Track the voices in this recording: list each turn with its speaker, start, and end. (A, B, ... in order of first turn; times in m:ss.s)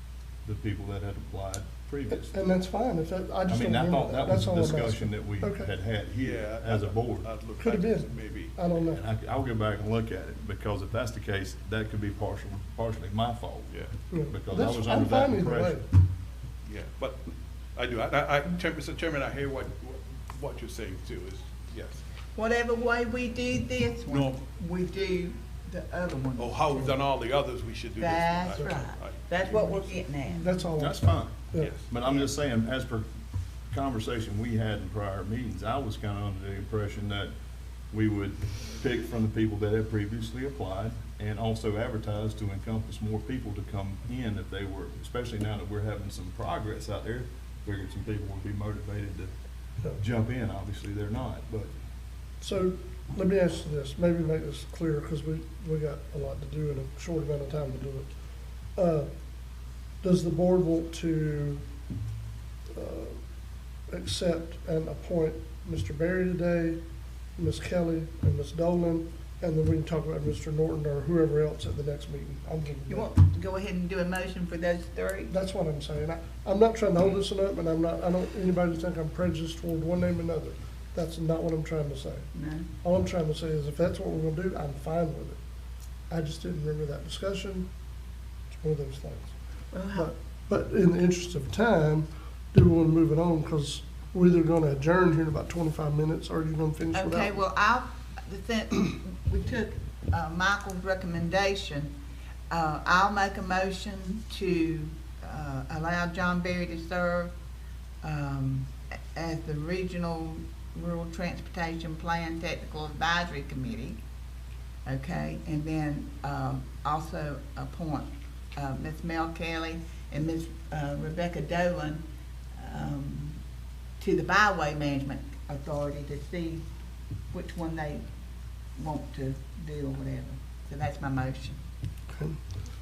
0:00.4-0:02.3 A
0:02.1-0:05.7 B
0:03.5-0:07.3 A
0:06.2-0:08.6 C
0:07.6-0:09.0 B
0:08.8-0:13.7 A
0:14.1-0:15.8 B
0:14.3-0:15.8 A
0:16.6-0:17.2 C
0:17.8-0:22.0 C
0:22.4-0:27.0 D
0:24.1-0:24.4 C
0:26.4-0:30.0 C
0:28.0-0:30.6 D
0:30.3-0:31.7 B
0:30.8-0:33.1 A
0:31.6-0:31.9 C
0:33.7-0:37.3 A
0:37.9-0:49.3 A
0:50.0-0:51.7 A
0:52.4-0:58.1 B
0:58.8-0:59.1 B
1:00.0-1:01.6 B
1:02.7-1:03.2 B
1:03.9-1:06.8 B
1:07.4-1:13.1 B
1:12.9-1:15.3 D
1:15.3-1:22.3 B
1:22.3-1:22.7 D
1:22.8-1:25.4 B
1:26.1-1:27.7 B
1:28.5-1:29.4 B
1:29.7-1:30.1 D
1:29.9-1:37.4 B
1:36.9-1:42.0 D
1:42.5-1:47.3 D
1:48.0-1:54.0 D
1:54.8-2:02.0 D
2:02.6-2:03.4 D
2:04.0-2:06.6 D
2:07.3-2:08.0 D
2:08.8-2:11.6 D
2:12.1-2:12.4 B